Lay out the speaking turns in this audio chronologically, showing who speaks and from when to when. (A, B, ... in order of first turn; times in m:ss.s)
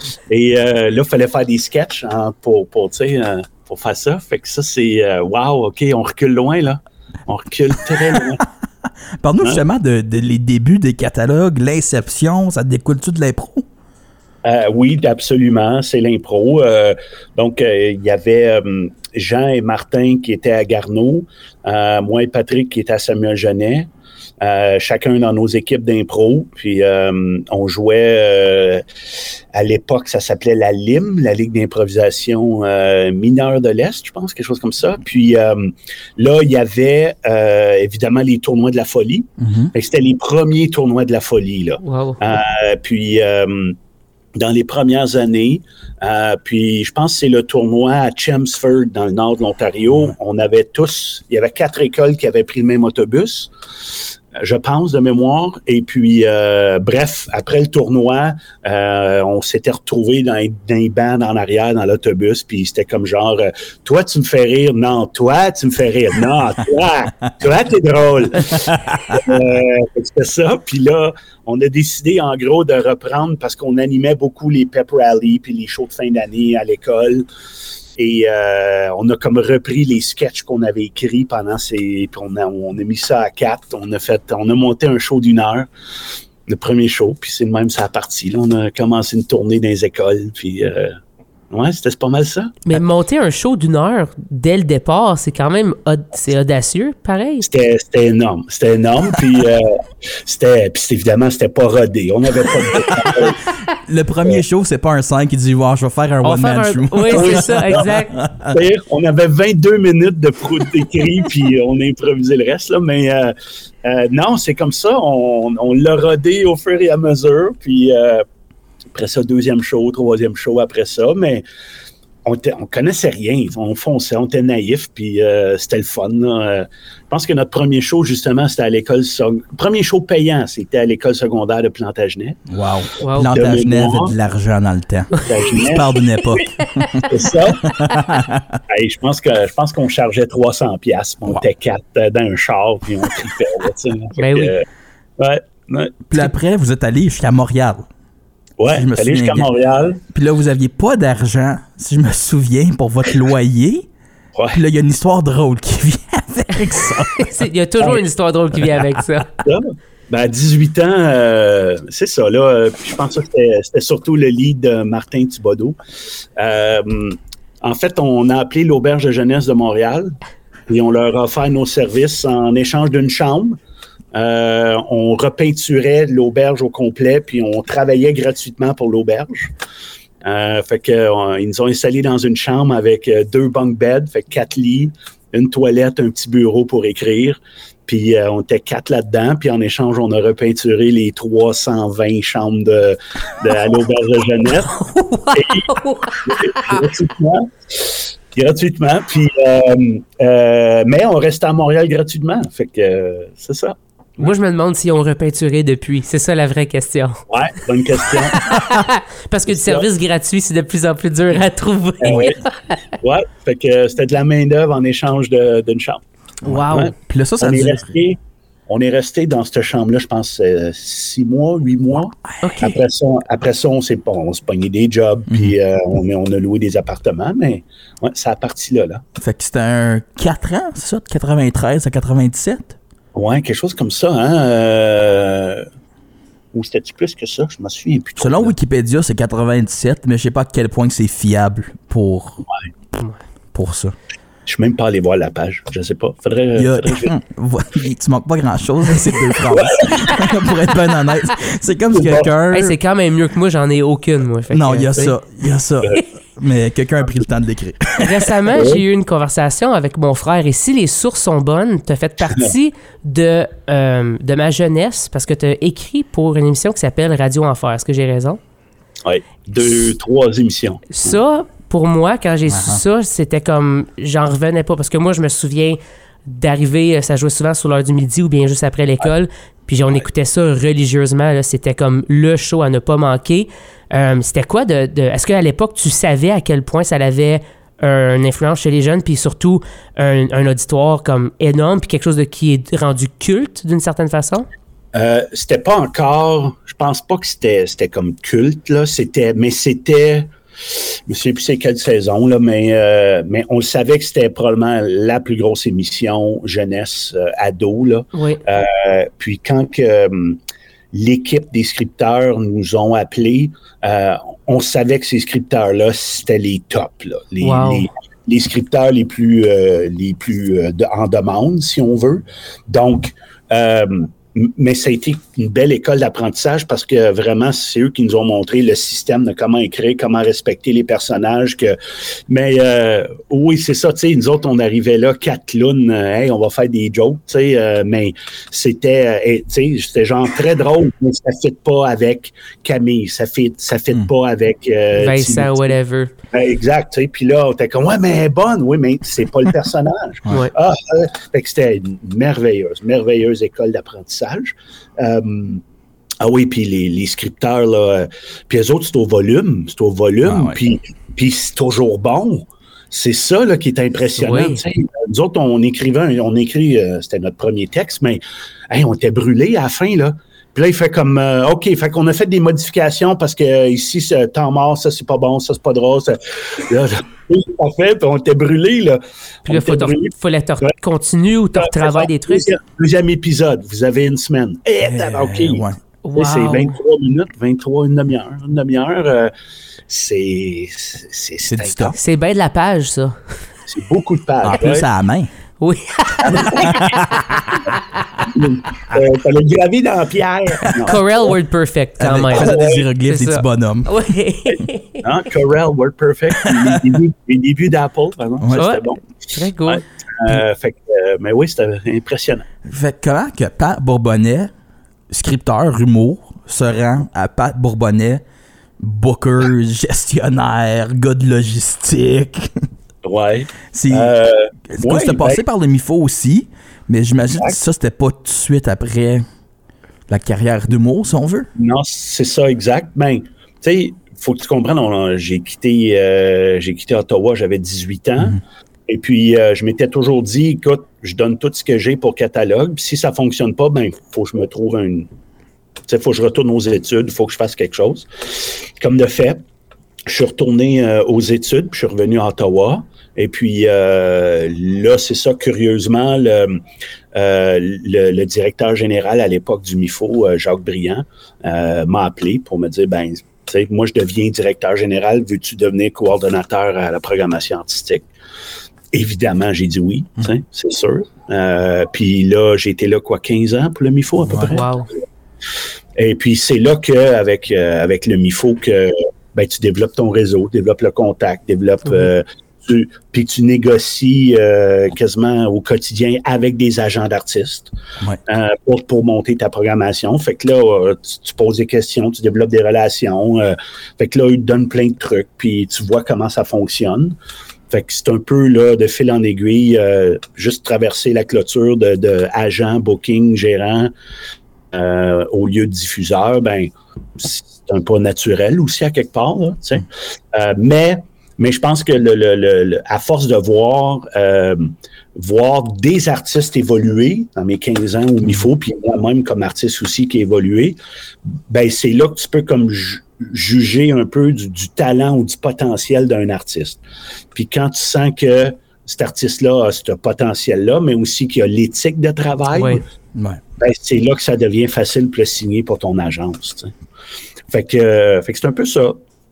0:00.3-0:08.4 A
0:09.2-0:13.6 B
0:14.4-0:23.9 A
0:24.4-0:28.8 A
0:29.5-0:43.8 A
0:39.4-0:39.7 B
0:41.8-0:42.2 C
0:44.3-1:17.2 A
1:08.5-1:09.2 B
1:18.0-1:25.7 A
1:26.5-1:31.0 A
1:31.5-1:32.6 A
1:32.6-1:37.5 C
1:37.4-1:43.4 A
1:42.7-1:48.6 B
1:46.2-1:48.2 C
1:47.1-1:47.9 A
1:48.5-1:58.2 A
1:58.9-2:01.4 A
2:02.2-2:12.4 A
2:12.5-2:17.1 B
2:13.0-2:13.3 C
2:13.2-2:14.1 A
2:15.2-2:16.1 A
2:16.8-2:17.0 C
2:17.0-2:17.7 A
2:17.6-2:18.6 B
2:18.7-2:24.6 A
2:24.2-2:24.5 C
2:25.2-2:26.3 A
2:26.1-2:27.8 B
2:28.6-2:30.0 A
2:28.7-2:29.5 B
2:30.1-2:33.9 B
2:34.3-2:34.6 A
2:34.5-2:37.3 B
2:37.2-2:39.3 C
2:39.4-2:45.8 A
2:46.4-2:50.1 A
2:50.7-2:53.6 A
2:54.1-2:59.5 A
3:00.2-3:14.8 A
3:14.7-3:16.8 C
3:15.3-3:23.8 A
3:24.2-3:27.2 C
3:27.3-3:28.5 A
3:28.3-3:32.8 C
3:29.5-3:29.8 A
3:32.0-3:32.4 A
3:33.0-3:36.0 A
3:36.4-3:36.9 C
3:36.4-3:37.9 B
3:36.7-3:49.0 A
3:42.4-3:42.8 C
3:45.3-3:45.5 B
3:49.2-3:52.8 B
3:53.1-3:55.7 A
3:56.5-3:58.5 A
3:58.2-4:02.4 B
4:03.5-4:03.9 B
4:04.4-4:07.1 A
4:06.5-4:12.8 B
4:09.5-4:10.0 A
4:11.9-4:12.3 A
4:12.5-4:15.1 C
4:14.5-4:18.4 B
4:18.0-4:28.4 C
4:18.6-4:18.8 A
4:29.0-4:31.1 A
4:30.9-4:54.5 C
4:32.5-4:32.8 B
4:54.9-5:10.4 A
5:08.1-5:08.4 C
5:10.9-5:31.8 A
5:17.4-5:17.9 C
5:32.3-5:45.8 A
5:44.9-5:46.1 C
5:46.3-5:55.6 A
5:56.2-6:20.1 A
6:00.2-6:00.6 B
6:04.2-6:04.6 C
6:19.4-6:22.5 C
6:21.6-6:29.3 A
6:24.8-6:25.8 B
6:26.0-6:26.8 C
6:29.9-6:32.0 A
6:31.4-6:32.0 B
6:32.0-6:33.2 C
6:33.7-6:34.9 A
6:34.4-6:35.3 B
6:35.6-6:37.8 C
6:36.2-6:36.9 A
6:36.6-6:37.3 B
6:38.2-6:41.3 A
6:40.8-6:45.0 C
6:42.0-6:43.9 B
6:42.3-6:42.9 A
6:45.0-6:49.0 A
6:46.4-6:46.8 B
6:48.4-6:48.7 B
6:48.5-6:50.4 C
6:49.6-6:52.4 A
6:52.6-6:54.5 B
6:55.1-6:58.2 B
6:58.8-7:02.7 B
7:03.0-7:05.4 A
7:03.7-7:04.1 B
7:04.7-7:09.2 B
7:10.1-7:11.5 B
7:11.6-7:25.1 A
7:25.9-7:29.4 A
7:30.1-7:36.6 A
7:37.1-7:48.1 A
7:48.9-7:54.7 A
7:54.4-7:54.9 C
7:56.0-8:07.7 A
8:08.3-8:17.1 A
8:17.7-8:23.9 A
8:24.7-8:40.8 A
8:41.5-8:46.8 A
8:47.3-8:52.8 A
8:52.5-8:52.8 C
8:53.1-8:53.4 B
8:53.6-8:56.7 A
8:57.5-8:59.0 A